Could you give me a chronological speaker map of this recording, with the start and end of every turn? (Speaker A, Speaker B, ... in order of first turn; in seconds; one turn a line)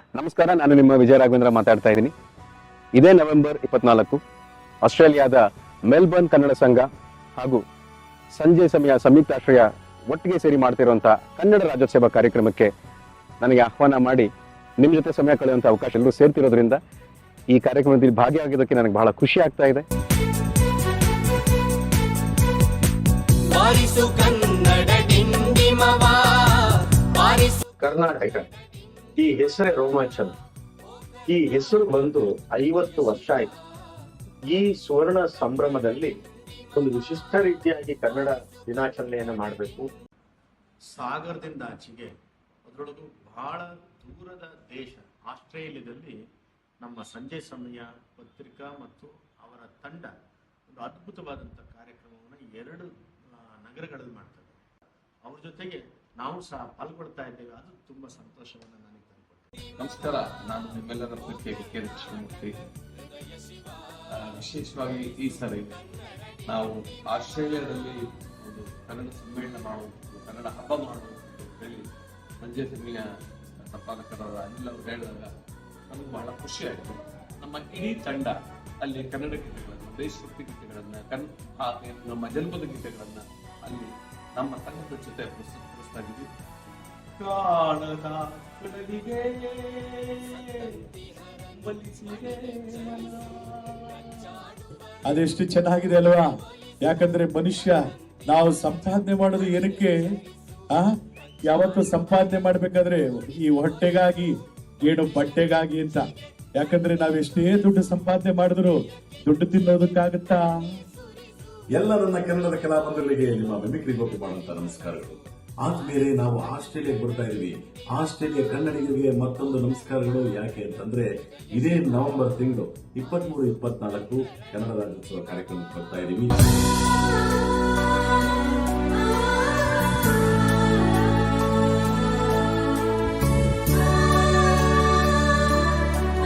Speaker A: 0.1-2.1
Speaker A: 2.9-4.2
Speaker A: 4.8-7.6
Speaker A: 8.3-12.7
Speaker A: 13.4-16.8
Speaker A: 17.5-19.8
Speaker B: 23.5-26.5
Speaker B: 27.2-27.6
Speaker C: 27.8-28.4
Speaker C: 29.2-30.3
Speaker C: 31.3-33.5
Speaker C: 34.5-36.1
Speaker C: 36.8-39.9
Speaker D: 41.0-42.1
Speaker D: 42.7-46.1
Speaker D: 46.8-50.1
Speaker D: 50.8-52.9
Speaker D: 53.6-54.5
Speaker D: 55.2-59.4
Speaker E: 59.8-62.5
Speaker E: 64.1-65.8
Speaker E: 66.5-71.8
Speaker E: 72.4-73.0
Speaker E: 73.6-75.3
Speaker E: 75.9-86.3
Speaker E: 87.2-90.8
Speaker E: 91.5-94.1
Speaker F: 95.1-96.3
Speaker F: 96.8-99.9
Speaker F: 101.5-104.3
Speaker F: 104.8-106.0
Speaker F: 106.5-108.7
Speaker F: 109.2-110.4
Speaker G: 111.7-126.5